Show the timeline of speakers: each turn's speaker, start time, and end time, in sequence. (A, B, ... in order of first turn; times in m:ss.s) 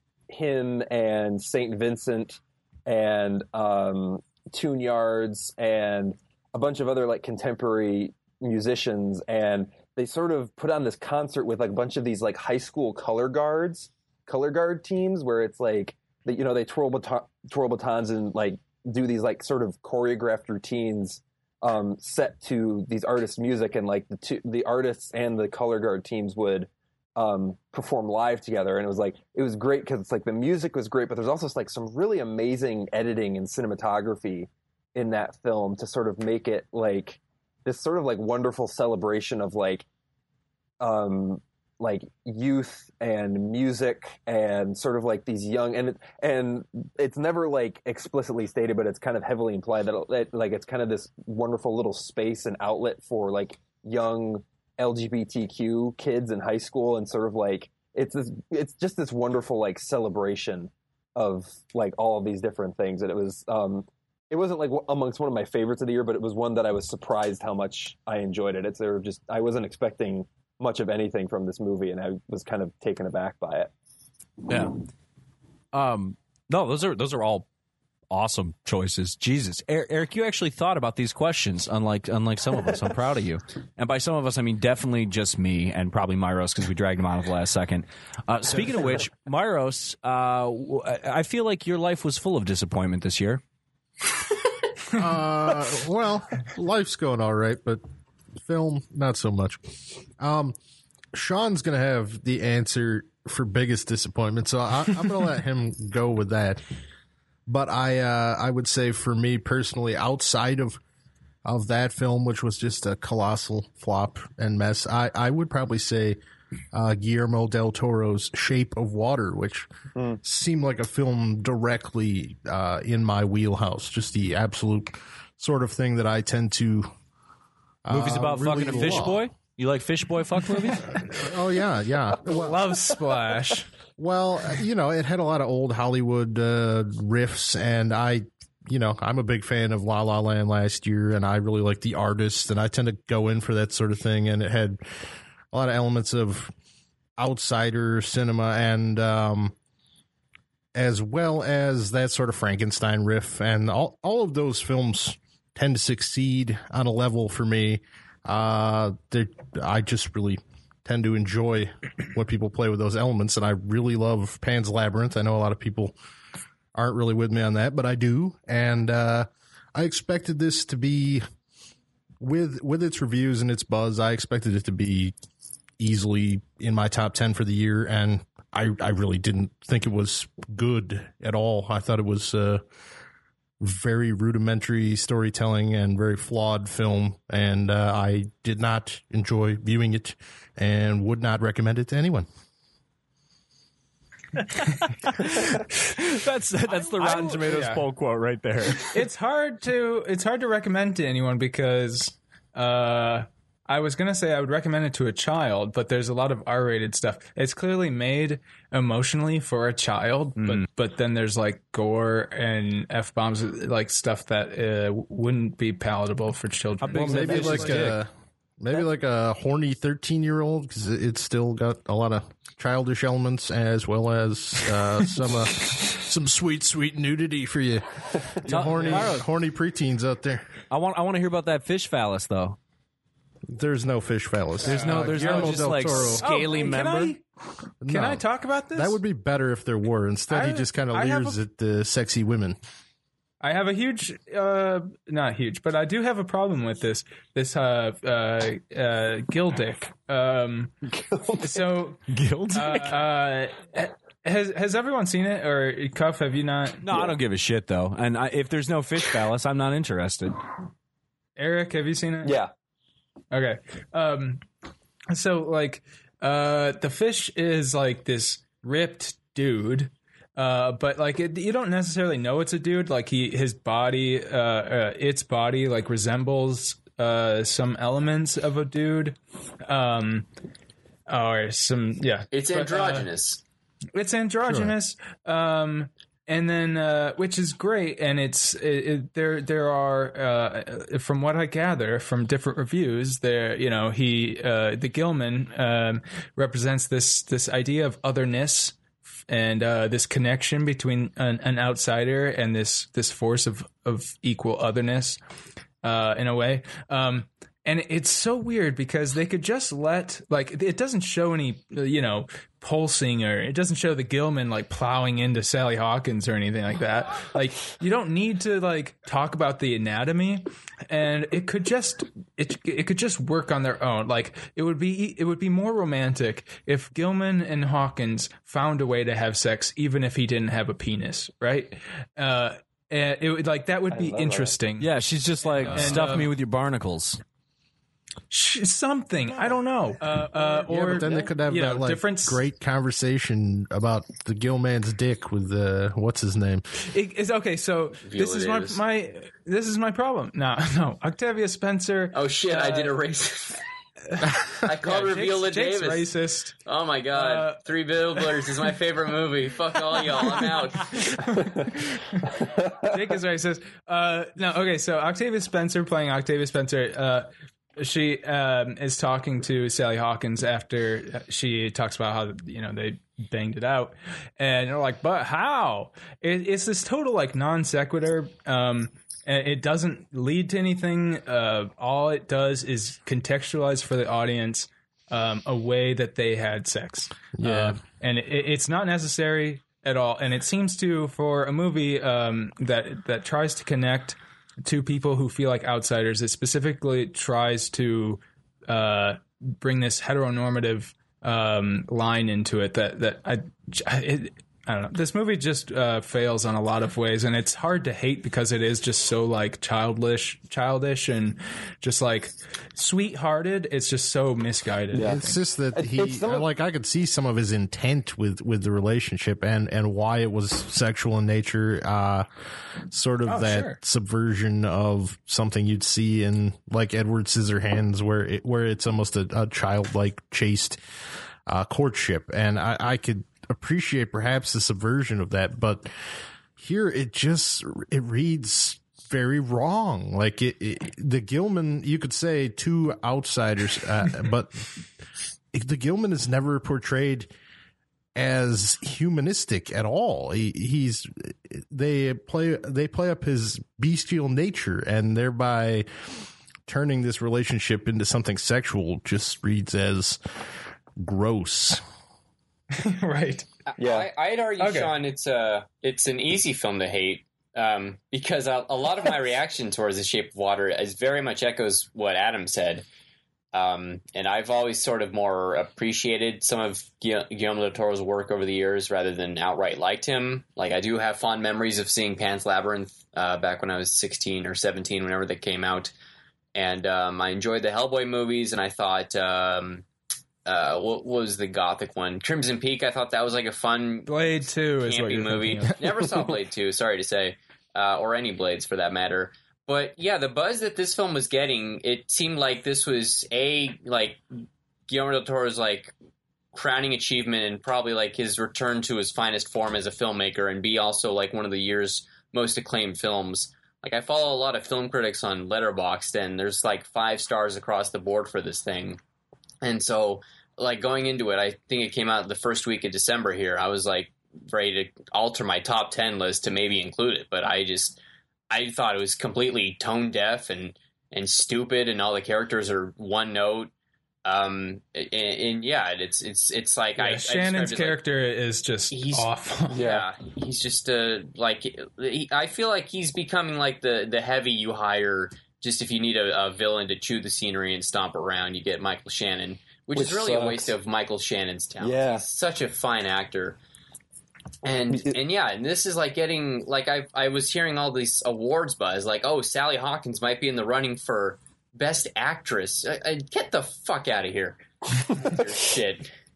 0:00.3-0:39.9 A
0:40.8-1:13.7 A
1:14.5-1:14.8 B
1:15.7-1:17.5 B
1:18.1-1:33.4 B
1:34.9-1:37.8 C
1:38.4-1:40.6 C
1:41.1-1:46.6 C
1:47.5-1:50.8 C
1:51.4-1:56.2 C
1:56.7-1:59.7 C
2:00.0-2:00.2 A
2:00.2-2:06.9 C
2:07.8-2:09.2 C
2:07.9-2:10.9 B
2:11.1-2:12.6 C
2:12.2-2:13.7 D
2:14.0-2:24.8 C
2:25.5-2:26.5 C
2:27.2-2:29.6 C
2:30.7-2:46.0 C
2:46.8-2:51.2 C
2:52.2-2:55.2 C
2:55.8-3:02.6 C
3:03.6-3:12.3 C
3:15.0-3:18.9 B
3:16.8-3:17.8 D
3:18.8-3:38.0 D
3:30.4-3:30.7 B
3:36.8-3:38.0 B
3:36.9-3:50.5 C
3:48.5-3:49.3 B
3:48.5-3:49.2 D
3:50.7-3:52.6 B
3:53.5-3:56.3 C
3:54.6-3:57.2 D
3:54.7-3:57.2 B
3:57.8-4:02.6 C
3:57.9-3:59.0 D
4:00.3-4:01.4 D
4:03.4-4:10.8 D
4:10.8-4:11.6 A
4:11.4-4:12.0 D
4:12.1-4:13.0 B
4:12.5-4:16.8 D
4:16.8-4:20.4 B
4:21.4-4:22.4 D
4:22.2-4:22.5 A
4:23.3-4:24.4 D
4:25.1-4:40.3 D
4:41.1-4:43.1 D
4:42.3-4:43.4 E
4:43.9-5:05.2 D
4:44.5-4:44.7 C
5:05.8-5:36.3 D
5:33.9-5:34.5 A
5:34.8-5:37.2 B
5:38.3-5:42.4 D
5:40.7-5:46.7 C
5:46.8-5:53.0 D
5:48.0-5:48.8 E
5:52.1-5:53.6 E
5:54.1-5:56.6 D
5:54.5-5:56.1 E
5:56.6-6:01.3 E
5:57.1-5:58.8 D
5:59.9-6:55.4 D
6:02.4-6:02.9 A
6:27.4-6:27.8 C
6:54.9-6:55.2 A
6:55.0-7:02.3 C
6:55.7-6:56.4 A
7:02.9-7:10.8 C
7:03.3-7:03.8 D
7:11.5-7:16.0 C
7:16.6-7:24.7 C
7:25.5-7:27.3 C
7:28.2-7:36.0 C
7:36.7-7:40.2 C
7:41.0-7:41.8 C
7:42.7-7:43.5 D
7:43.7-7:52.9 E
7:43.8-7:44.1 A
7:44.6-7:45.0 D
7:53.5-8:05.9 E
8:06.6-8:09.8 E
8:10.5-8:14.1 E
8:14.1-8:16.1 D
8:14.8-8:24.2 E
8:24.9-8:25.9 E
8:26.5-8:39.0 E
8:39.6-8:48.0 E
8:48.5-8:53.7 E
8:54.2-8:58.0 E
8:57.0-8:59.9 D
8:58.9-9:13.6 E
8:59.7-9:00.1 A
9:10.0-9:10.7 A
9:11.8-9:12.3 A
9:14.6-9:26.1 E
9:14.9-9:15.2 A